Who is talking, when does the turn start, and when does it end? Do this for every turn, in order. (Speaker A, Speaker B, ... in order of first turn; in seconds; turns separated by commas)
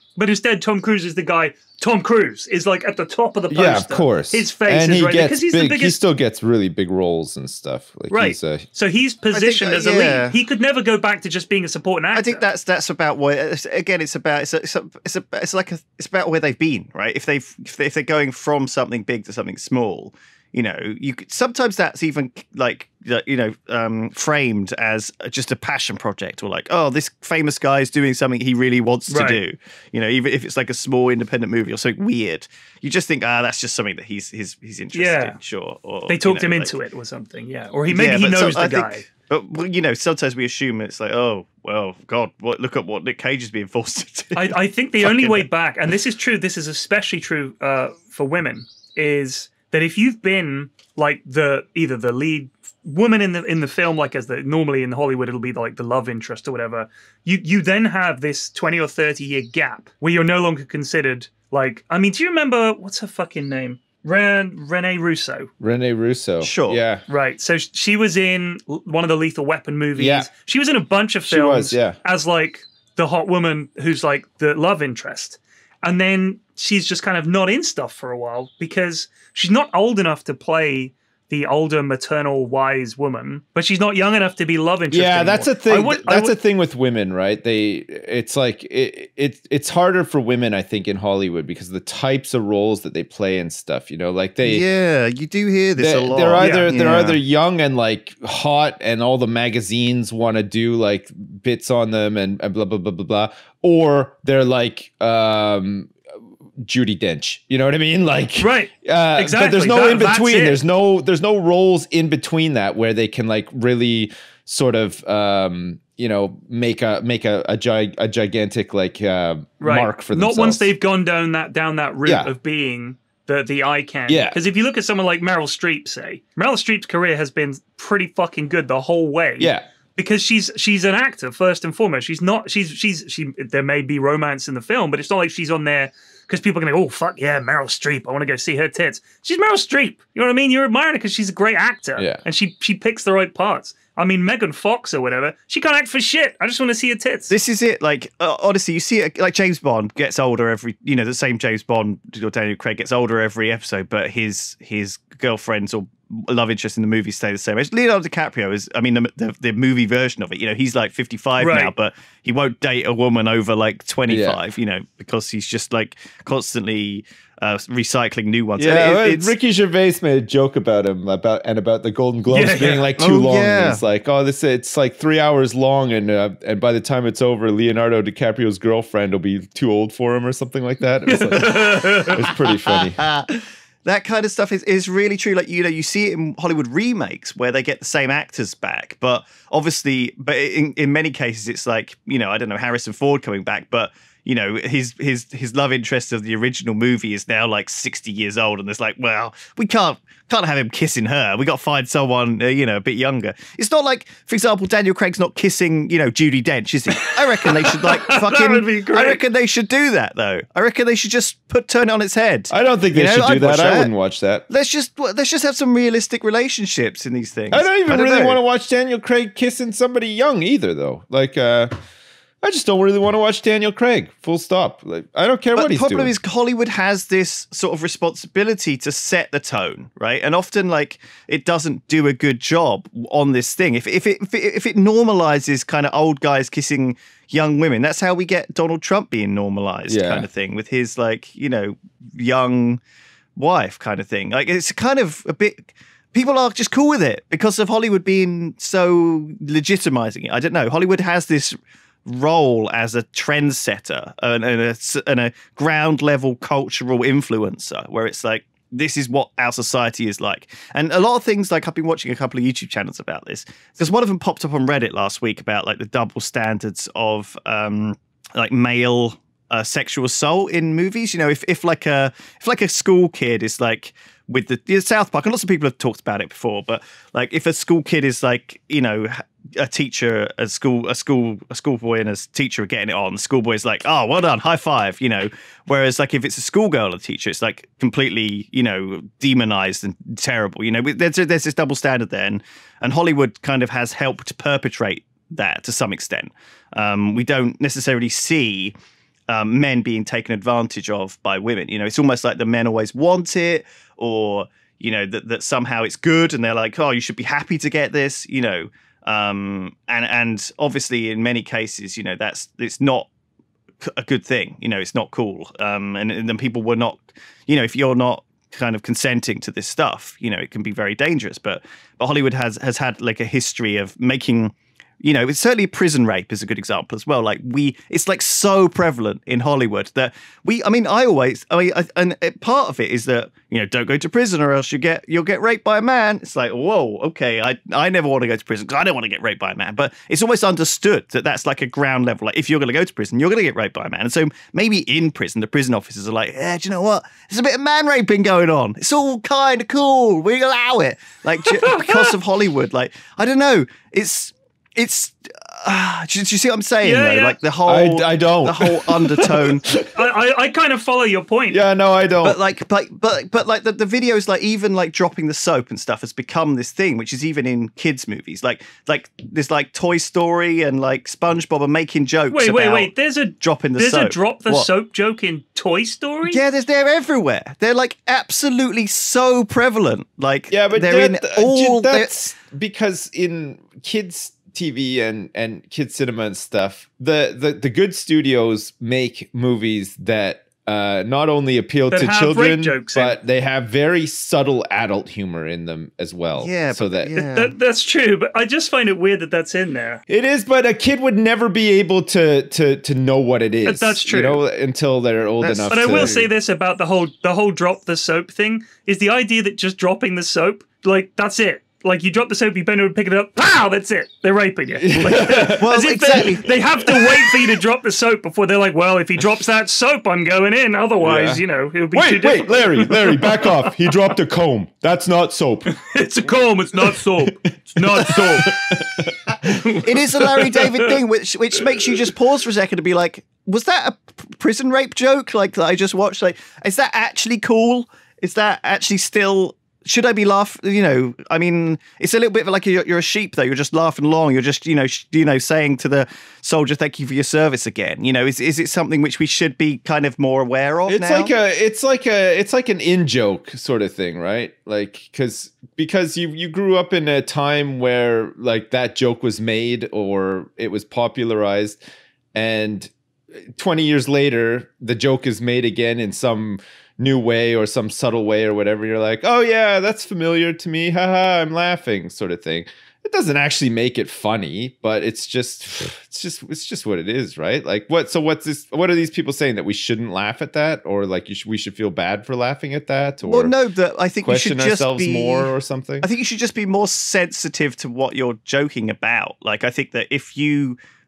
Speaker A: 0.1-6.0, Speaker B: 3.5-8.6, Speaker A: 8.1-12.4, Speaker C: 9.3-10.3, Speaker C: 12.1-36.7, Speaker A: 29.1-29.4, Speaker A: 34.9-35.4, Speaker A: 36.1-39.0, Speaker C: 37.9-45.4, Speaker A: 44.4-65.5, Speaker B: 65.6-67.0, Speaker C: 66.4-66.8, Speaker A: 67.1-86.3, Speaker B: 70.0-70.3, Speaker B: 71.3-72.0, Speaker B: 84.9-94.6, Speaker C: 94.4-97.2, Speaker B: 95.8-105.9, Speaker A: 96.4-96.7, Speaker B: 106.6-120.7, Speaker A: 108.4-110.6, Speaker A: 119.6-147.3, Speaker B: 122.0-122.3, Speaker B: 124.1-124.4, Speaker B: 129.4-129.7, Speaker B: 141.9-142.2, Speaker C: 147.3-169.3, Speaker A: 161.4-161.7, Speaker B: 164.1-164.4, Speaker B: 168.6-183.0, Speaker A: 172.3-172.9, Speaker C: 173.0-173.8, Speaker A: 181.1-182.3, Speaker C: 182.7-213.9, Speaker A: 207.1-209.2, Speaker B: 212.5-214.4, Speaker C: 214.5-218.4, Speaker B: 217.5-221.7, Speaker B: 222.4-226.1, Speaker C: 225.6-242.8, Speaker B: 239.9-240.3, Speaker C: 243.3-298.7, Speaker C: 299.3-313.1, Speaker C: 313.8-359.6, Speaker A: 351.4-352.2, Speaker A: 356.8-357.4, Speaker B: 357.6-360.1, Speaker A: 359.9-361.6, Speaker B: 361.5-362.4, Speaker C: 362.2-374.7, Speaker A: 372.3-376.4, Speaker C: 376.2-382.1, Speaker B: 380.5-397.1, Speaker A: 391.9-393.2, Speaker C: 396.4-397.5, Speaker A: 397.2-400.0, Speaker B: 400.1-406.3, Speaker A: 403.6-404.4, Speaker C: 405.4-406.2, Speaker A: 405.7-423.9, Speaker B: 414.8-415.7, Speaker C: 415.4-416.5, Speaker B: 416.8-417.6, Speaker B: 421.0-425.8, Speaker A: 425.7-428.6, Speaker B: 427.8-429.7, Speaker A: 429.6-430.9, Speaker C: 429.7-451.3, Speaker B: 450.9-461.8, Speaker B: 462.3-462.9, Speaker B: 463.5-483.5, Speaker C: 483.2-490.8, Speaker B: 484.2-486.1